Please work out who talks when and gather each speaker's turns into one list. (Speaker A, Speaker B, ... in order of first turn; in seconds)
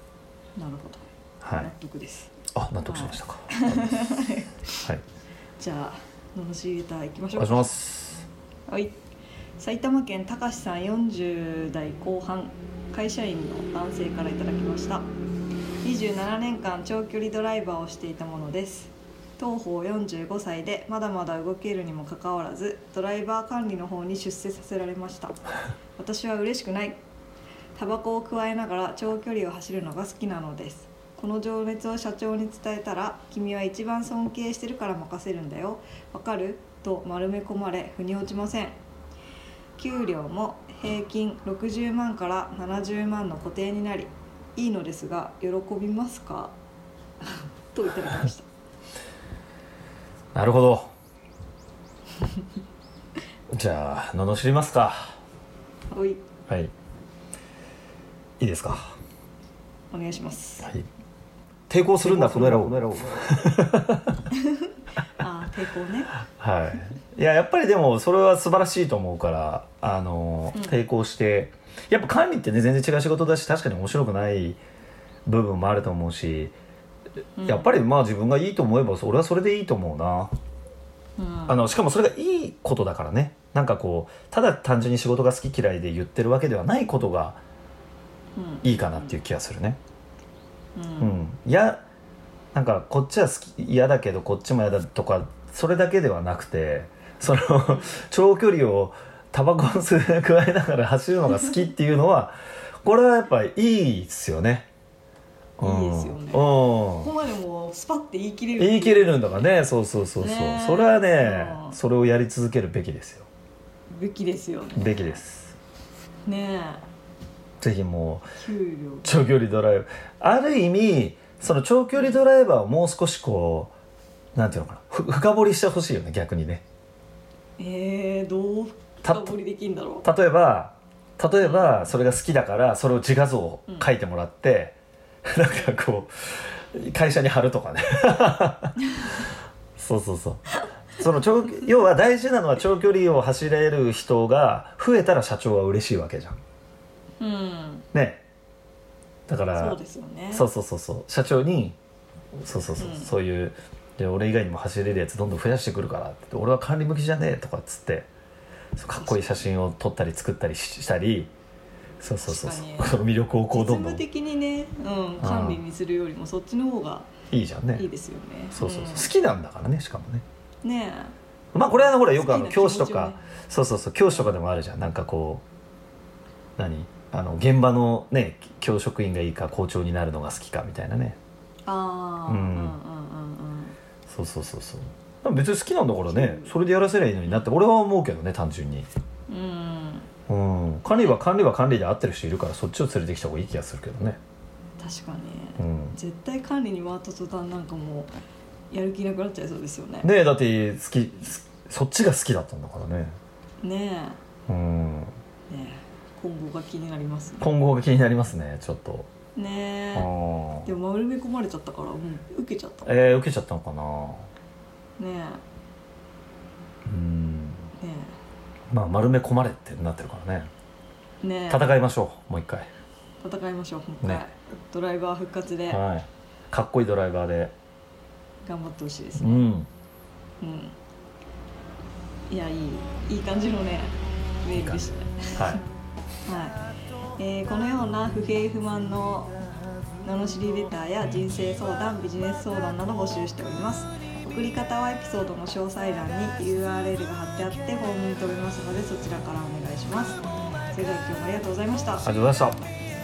Speaker A: 0.6-1.0, 1.6-2.3, 2.9-4.6, 5.6-7.7, 8.7-9.0, 9.6-15.1, 15.8-25.4, 26.0-27.0, 27.8-38.8, 39.8-46.6, 47.2-48.5, 55.9-56.2, 59.9-60.7, 62.0-63.0, 64.3-66.2, 77.4-77.8, 81.2-81.6, 88.3-89.2, 90.8-91.2, 97.7-98.0, 105.6-109.5, 110.2-111.8, 113.9-115.2, 116.3-116.8, 118.4-119.3, 127.6-130.1, 131.4-131.9, 147.2-147.9, 149.5-150.5, 152.8-153.1, 158.9-159.5, 162.2-163.0, 163.5-167.1, 167.7-169.1, 170.6-173.3, 181.7-183.8, 186.1-186.5, 189.3-190.1, 190.9-191.2, 194.8-198.1, 198.7-200.1, 203.6-204.2, 205.5-207.5, 209.4-210.1, 210.7-213.2, 215.0-215.4, 217.8-218.2, 221.2-221.7, 223.2-225.8, 228.4-229.5, 230.4-230.8, 232.3-235.5, 236.3-236.6, 237.2-239.4, 240.0-252.1
Speaker B: 1.4-1.7, 2.5-4.1, 7.3-8.3, 50.3-50.9, 53.5-55.1, 58.4-59.0, 60.6-60.9, 61.7-64.2, 66.2-74.6, 75.3-76.5, 77.4-80.3, 81.5-87.4, 88.6-89.8, 91.0-91.8, 92.5-104.7, 105.6-107.1, 108.6-113.3, 114.8-115.5, 117.6-118.3, 119.0-123.7, 124.3-126.6, 129.0-129.3, 130.0-134.8, 135.3-138.8, 139.8-146.4, 147.9-148.2, 149.3-149.8, 150.3-151.8, 152.4-158.1, 158.8-161.3, 162.0-164.0, 165.2-165.6, 167.3-167.9, 168.5-170.2, 171.5-175.4, 176.6-181.2, 182.3-182.8, 184.1-188.9, 190.3-194.2, 195.6-196.0, 200.0-203.2, 204.5-205.1, 207.4-209.1, 209.9-210.7, 212.9-214.3, 216.9-217.7, 218.7-220.5, 221.5-222.7, 225.7-227.5, 229.2-229.7, 234.5-235.6, 252.0-252.6